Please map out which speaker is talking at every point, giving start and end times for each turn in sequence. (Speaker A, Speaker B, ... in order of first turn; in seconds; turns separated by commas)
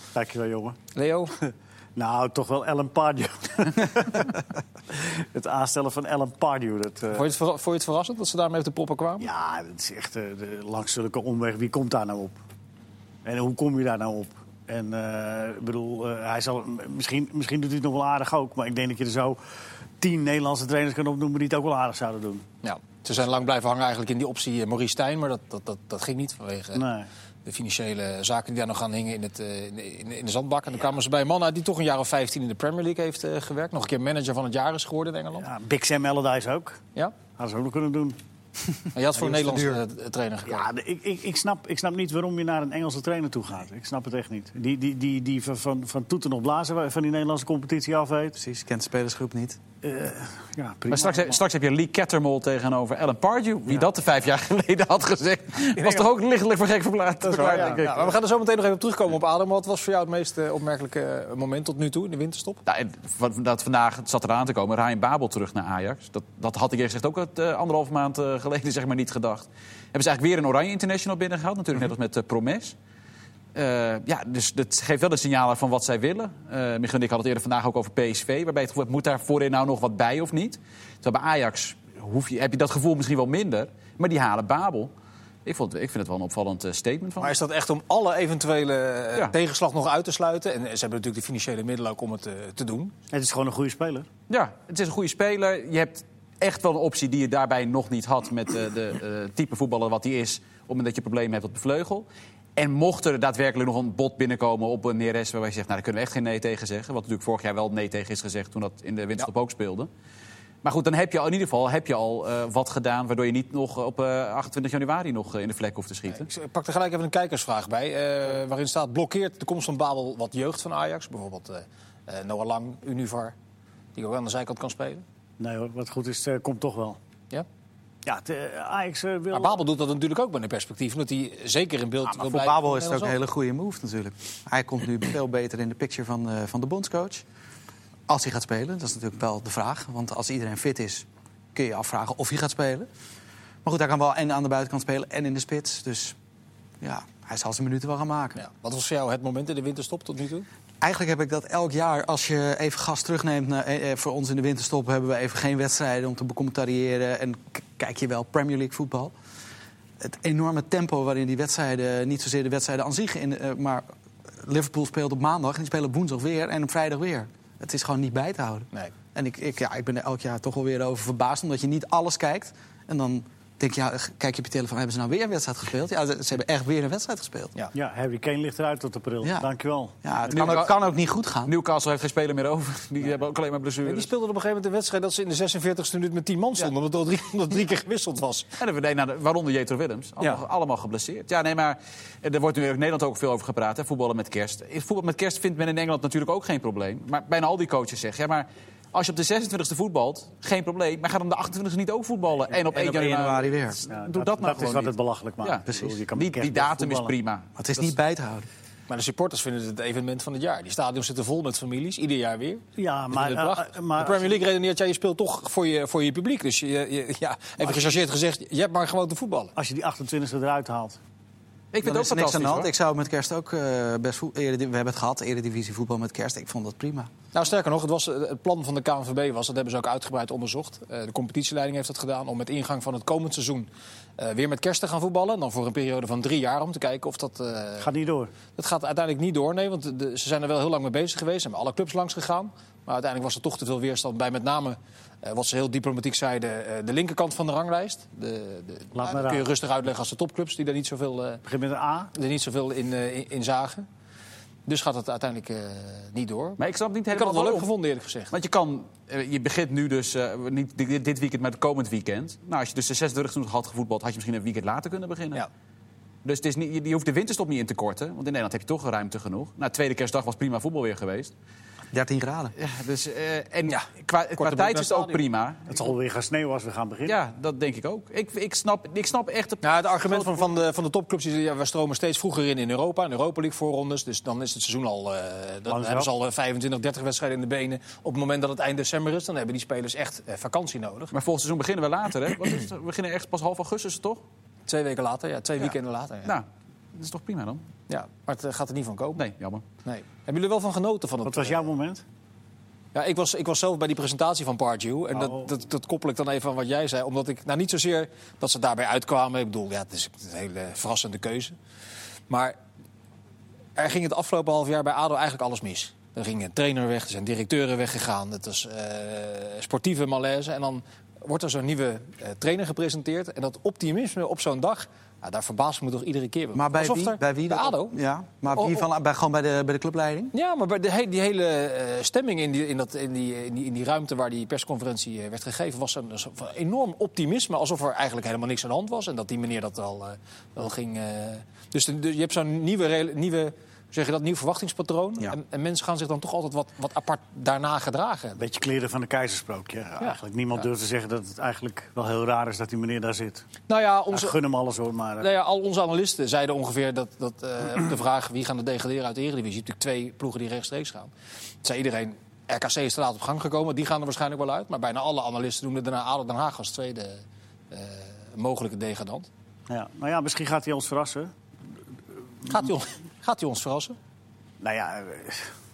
Speaker A: 0.1-0.8, Speaker B: 0.9-1.4, Speaker A: 2.0-4.4, Speaker A: 4.9-7.3, Speaker B: 7.1-9.3, Speaker A: 9.2-12.4, Speaker A: 13.2-19.4, Speaker A: 20.0-22.5, Speaker B: 22.6-26.8, Speaker A: 26.7-27.1, Speaker B: 27.5-35.5, Speaker A: 35.4-36.8, Speaker A: 37.4-38.2, Speaker B: 38.9-40.7, Speaker C: 39.2-39.8, Speaker A: 40.5-48.4, Speaker C: 48.4-49.6, Speaker A: 49.8-51.4, Speaker D: 50.9-58.1, Speaker B: 55.8-56.1, Speaker B: 57.2-62.6, Speaker A: 57.4-58.0, Speaker D: 62.7-72.8, Speaker D: 73.5-84.9, Speaker D: 85.5-87.4, Speaker B: 87.2-92.9, Speaker A: 93.1-94.1, Speaker D: 94.3-109.9, Speaker D: 110.6-116.3, Speaker B: 116.1-123.3, Speaker B: 124.0-125.0, Speaker A: 125.4-127.0, Speaker A: 128.1-129.6, Speaker B: 129.3-133.2, Speaker C: 132.1-137.2, Speaker C: 138.1-142.9, Speaker C: 143.6-146.2, Speaker C: 146.8-148.4, Speaker B: 148.4-150.5, Speaker C: 150.8-159.1, Speaker C: 160.0-163.8, Speaker C: 164.4-177.5, Speaker A: 177.7-180.6, Speaker C: 179.2-179.5, Speaker C: 180.0-181.5, Speaker D: 180.3-180.7, Speaker D: 181.5-184.1, Speaker B: 183.8-188.5, Speaker D: 188.6-207.9, Speaker C: 202.7-203.8, Speaker A: 203.9-207.1, Speaker C: 205.7-206.0, Speaker C: 207.6-208.5, Speaker B: 208.9-219.5, Speaker A: 212.8-214.4, Speaker A: 219.6-221.0, Speaker D: 221.7-222.7, Speaker C: 221.8-227.1, Speaker B: 227.3-237.9, Speaker A: 237.8-238.3, Speaker B: 238.6-251.4, Speaker A: 248.9-249.5, Speaker A: 251.5-252.1, Speaker B: 252.1-253.9, Speaker B: 254.7-256.6, Speaker D: 256.6-257.7, Speaker B: 257.1-258.3, Speaker D: 258.3-265.4, Speaker D: 266.2-271.3, Speaker C: 271.9-272.5, Speaker D: 272.6-275.8, Speaker B: 273.7-275.2, Speaker A: 275.7-277.2, Speaker D: 277.1-280.5, Speaker B: 279.6-291.1, Speaker A: 285.7-286.1, Speaker D: 291.1-294.2, Speaker B: 294.7-296.4, Speaker D: 296.2-297.6, Speaker B: 297.9-299.2, Speaker D: 299.2-299.6, Speaker B: 299.9-301.6, Speaker A: 301.2-302.0, Speaker B: 302.9-311.6, Speaker A: 305.1-305.5, Speaker B: 312.3-312.6, Speaker B: 313.8-327.9, Speaker C: 326.6-330.3, Speaker B: 328.5-328.9, Speaker B: 330.3-348.4, Speaker A: 348.4-353.5, Speaker B: 353.7-354.4, Speaker A: 354.1-355.3, Speaker B: 355.2-361.1, Speaker B: 361.6-369.3, Speaker A: 369.7-371.3, Speaker B: 372.5-374.0, Speaker A: 374.6-375.5